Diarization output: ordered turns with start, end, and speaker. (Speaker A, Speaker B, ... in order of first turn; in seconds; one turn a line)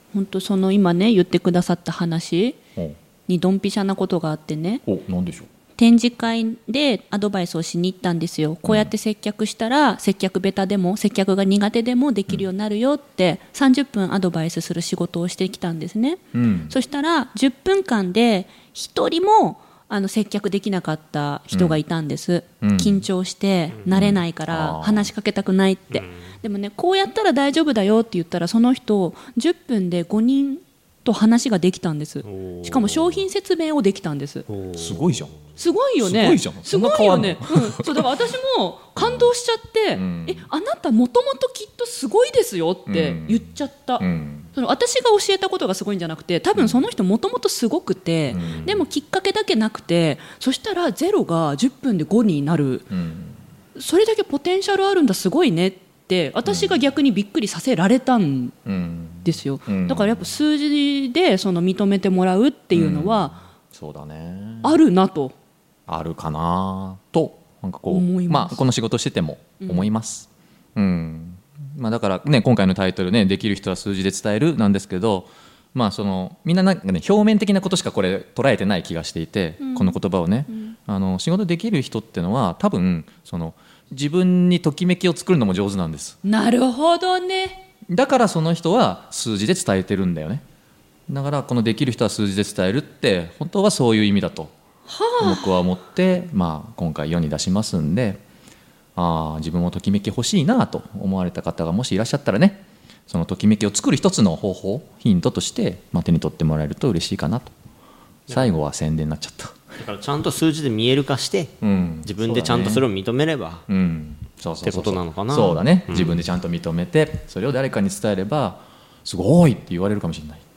Speaker A: 0.1-2.6
Speaker A: 3.3-4.8
Speaker B: 4.8-5.5
Speaker A: 5.8-34.5
Speaker B: 8.6-8.9
Speaker B: 16.3-16.7
Speaker B: 21.5-21.8
Speaker B: 22.6-23.0
Speaker B: 23.9-25.1
Speaker C: 32.2-33.2
Speaker C: 34.5-35.2
Speaker B: 34.8-35.4
Speaker A: 35.6-44.0
Speaker B: 36.0-38.1
Speaker B: 39.0-39.3
Speaker B: 39.9-40.5
Speaker B: 42.9-44.5
Speaker A: 44.5-52.9
Speaker B: 46.5-46.8
Speaker B: 48.3-48.8
Speaker B: 52.9-53.4
Speaker A: 53.8-58.5
Speaker B: 56.4-56.8
Speaker B: 58.6-60.3
Speaker A: 59.2-63.3
Speaker B: 62.7-64.8
Speaker A: 64.6-65.3
Speaker B: 65.9-86.2
Speaker A: 67.9-68.6
Speaker A: 69.6-69.9
Speaker A: 79.6-80.0
Speaker A: 86.2-87.6
Speaker B: 87.9-90.4
Speaker B: 91.1-94.5
Speaker A: 94.9-95.6
Speaker B: 95.2-98.2
Speaker B: 99.0-107.5
Speaker B: 108.3-109.5
Speaker C: 109.8-113.7
Speaker B: 111.6-112.8
Speaker B: 113.7-120.4
Speaker C: 114.6-116.2